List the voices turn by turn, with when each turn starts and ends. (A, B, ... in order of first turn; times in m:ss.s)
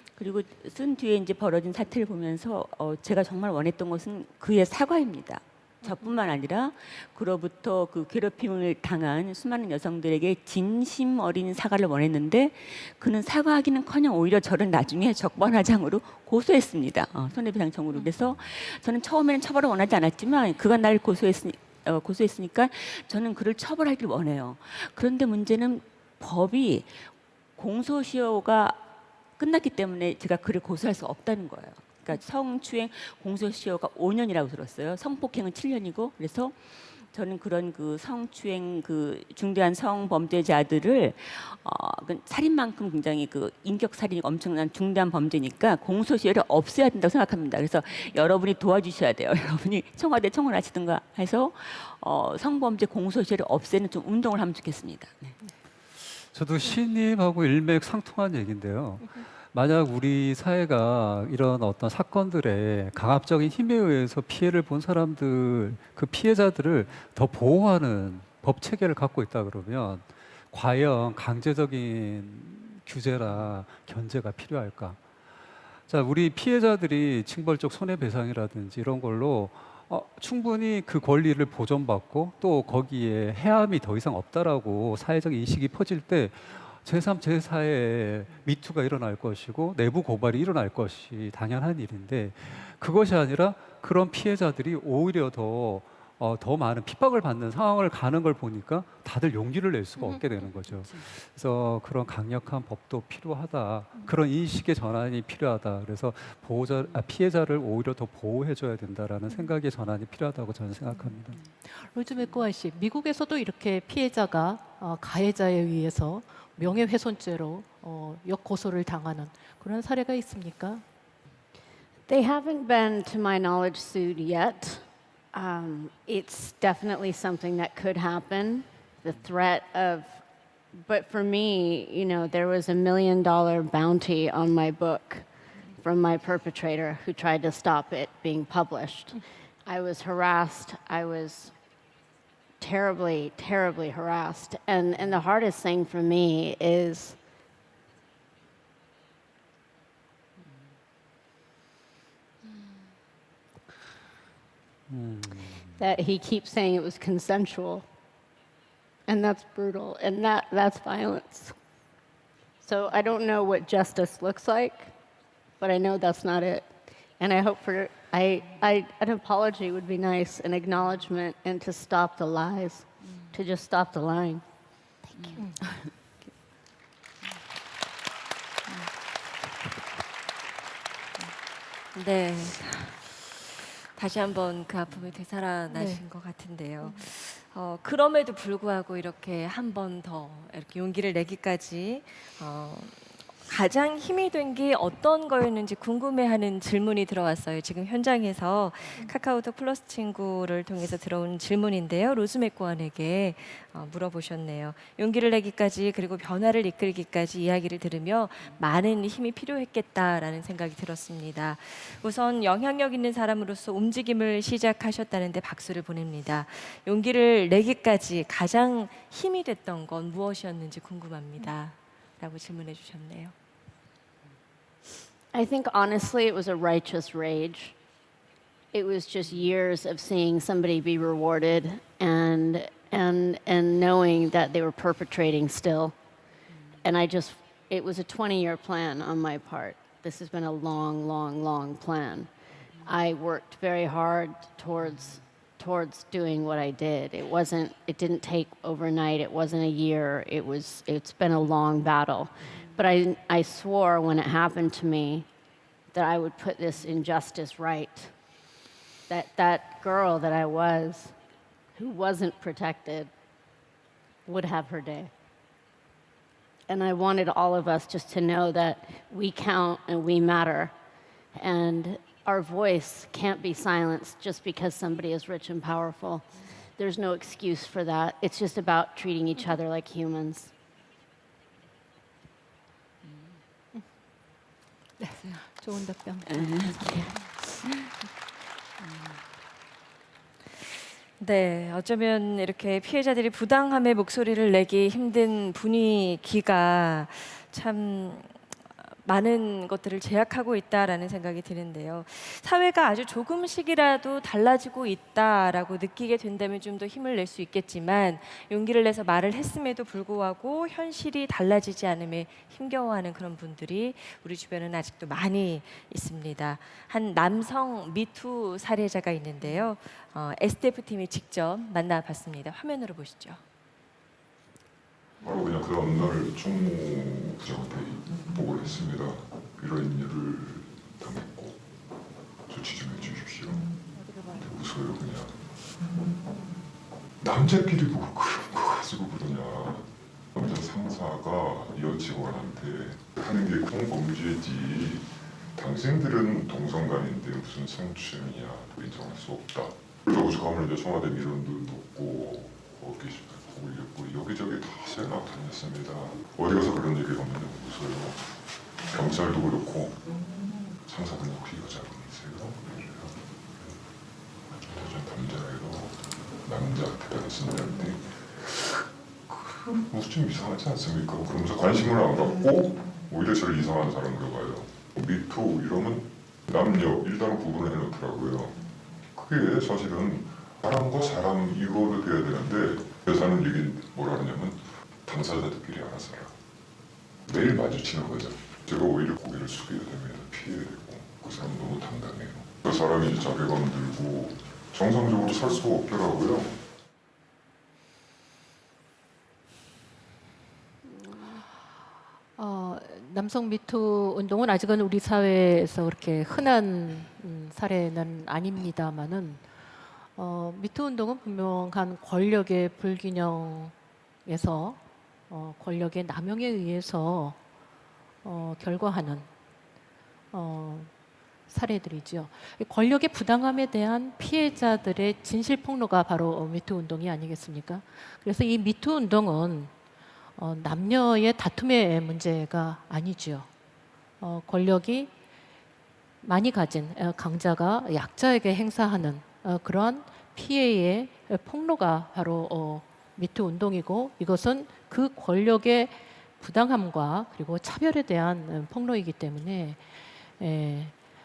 0:00.2-0:27.0 A
0:27.6-0:28.8 A
0:29.4-0:55.4 A
0:56.3-1:15.0 B
1:15.9-1:51.4 B
1:40.0-1:40.2 C
1:51.8-2:00.8 C
2:02.1-2:10.2 D
2:10.7-2:15.3 D
2:15.8-2:21.5 D
2:22.6-2:27.2 D
2:34.9-2:35.8 B
2:35.8-2:37.8 D
2:39.1-2:41.6 D
2:42.6-2:44.9 D
2:45.6-2:54.4 D
2:55.2-2:56.3 A
2:55.4-2:55.6 C
3:01.9-3:03.3 E
3:03.9-3:43.3 E
3:05.7-3:06.0 C
3:45.3-3:47.7 D
3:48.7-3:55.9 D
3:56.8-4:02.3 D
4:02.8-4:15.3 D
4:15.9-4:18.1 D
4:19.1-4:21.2 D
4:21.8-4:23.1 D
4:24.2-4:25.1 D
4:26.7-4:30.7 D
4:31.3-4:40.5 D
4:45.0-4:47.0 C
4:46.3-4:47.9 A
4:48.8-4:49.2 A
4:51.2-5:23.4 E
5:25.2-5:31.6 F
5:32.5-5:35.4 F
5:37.2-5:58.3 F
5:58.8-6:03.8 F
6:04.6-6:26.3 F
6:27.2-6:36.6 F
6:40.8-6:41.4 D
6:42.4-6:49.4 C
6:50.2-6:53.7 C
6:54.2-6:57.4 C
6:58.2-6:59.3 C
7:00.3-7:00.9 C
7:01.5-7:09.7 C
7:10.4-7:13.5 C
7:14.2-7:15.1 C
7:16.2-7:29.8 C
7:30.4-7:30.9 C